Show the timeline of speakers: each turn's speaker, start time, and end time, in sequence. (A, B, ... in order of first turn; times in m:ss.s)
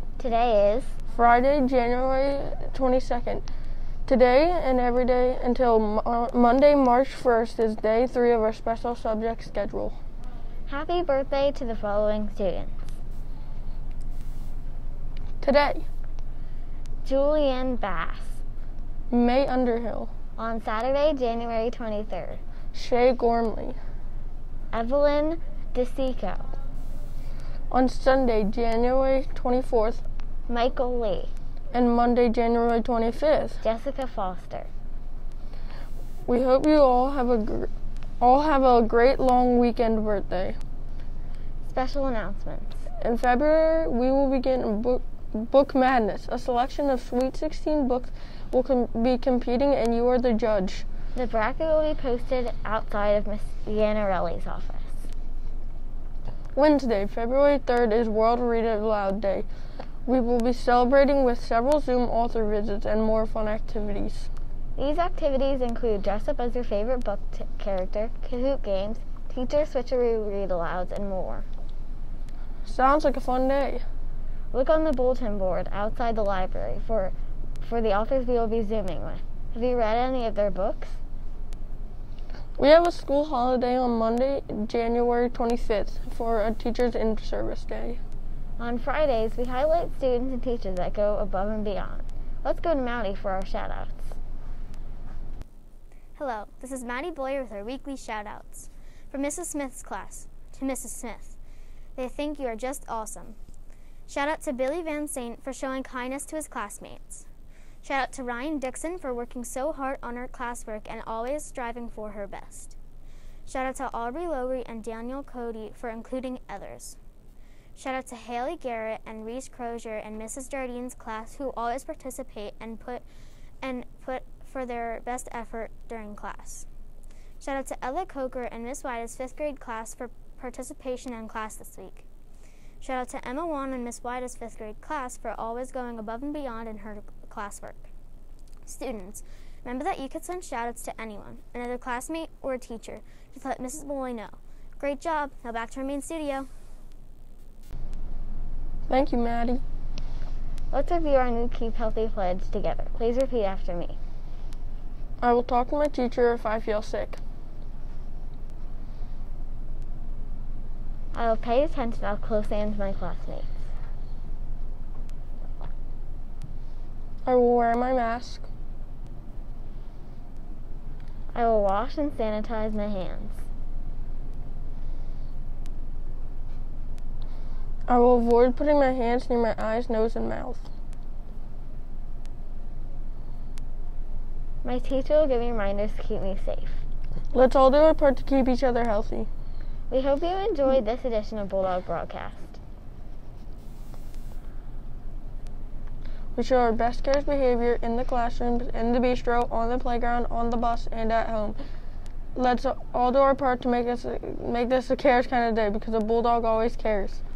0:00.2-0:01.0 A
0:01.1-0:03.4 B
0:04.0-0:10.0 B
0:10.7-0:13.0 A
0:15.4-0:15.9 B
0:17.0-0:18.4 A
0:19.1-0:20.1 B
0:20.4-0:22.4 A
0:22.7-0:23.8 B
0:24.7-0:26.5 A
0:27.7-0:30.0 B
0:30.5-0:31.3 A
0:31.7-0:33.6 B
0:33.6-0:34.7 A
0:36.2-0:37.7 B
0:38.2-0:40.6 B
0:41.6-0:42.8 A
0:43.0-0:50.8 B
0:51.1-0:55.1 A
0:56.5-0:59.5 B
1:00.0-1:04.3 B
1:04.8-1:11.4 A
1:12.6-1:13.8 B
1:14.5-1:21.0 A
1:22.6-1:28.0 B
1:28.6-1:34.2 A
1:36.2-1:41.4 C
1:42.0-1:43.4 C
1:44.1-1:47.3 C
1:47.8-1:52.8 C
1:53.4-1:57.0 C
1:57.7-2:03.0 C
2:03.6-2:06.7 C
2:07.4-2:12.0 C
2:12.8-2:17.9 C
2:18.6-2:26.5 C
2:28.9-2:29.6 B
2:30.7-2:34.0 A
2:35.2-2:37.2 B
2:41.1-2:43.6 A
2:47.2-2:48.5 B
2:51.3-2:53.4 A
2:57.9-3:00.6 B
3:04.6-3:06.8 A
3:07.3-3:09.3 B
3:09.9-3:12.6 A
3:16.3-3:21.6 B
3:22.3-3:27.2 B